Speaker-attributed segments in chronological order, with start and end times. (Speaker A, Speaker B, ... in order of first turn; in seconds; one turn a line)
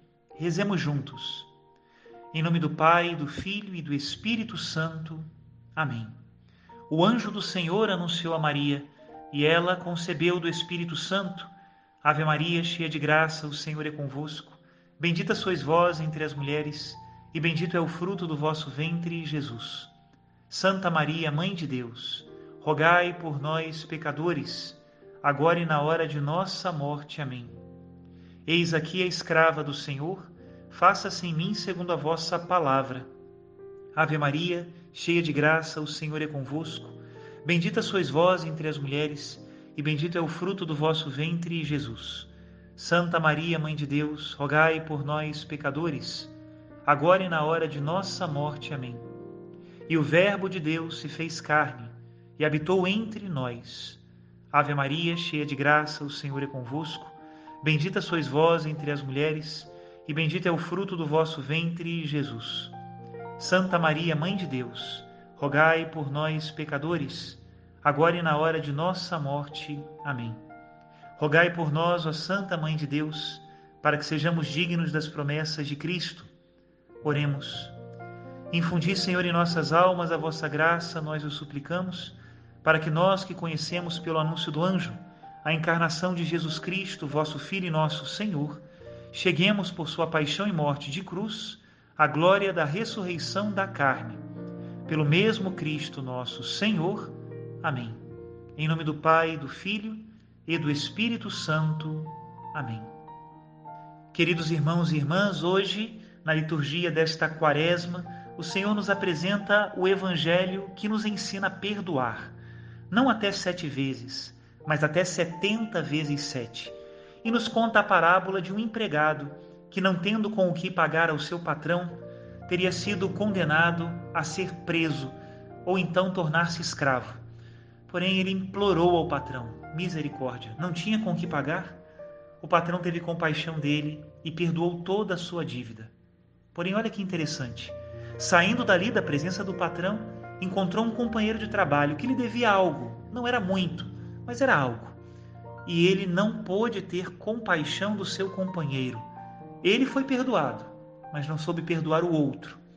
Speaker A: 0.3-1.5
Speaker A: 2.3-6.1
Speaker A: 6.9-11.5
Speaker A: 12.0-19.9
Speaker A: 20.5-27.6
Speaker A: 28.4-33.1
Speaker A: 33.9-46.3
Speaker A: 46.9-49.0
Speaker A: 49.9-54.0
Speaker A: 54.5-62.7
Speaker A: 63.4-70.4
Speaker A: 71.2-76.3
Speaker A: 77.0-77.7
Speaker A: 78.5-94.2
Speaker A: 94.8-98.0
Speaker A: 98.5-102.9
Speaker A: 104.1-112.3
Speaker A: 112.9-127.2
Speaker A: 127.9-131.8
Speaker A: 132.4-135.9
Speaker A: 136.5-145.0
Speaker A: 145.6-149.1
Speaker A: 149.6-152.6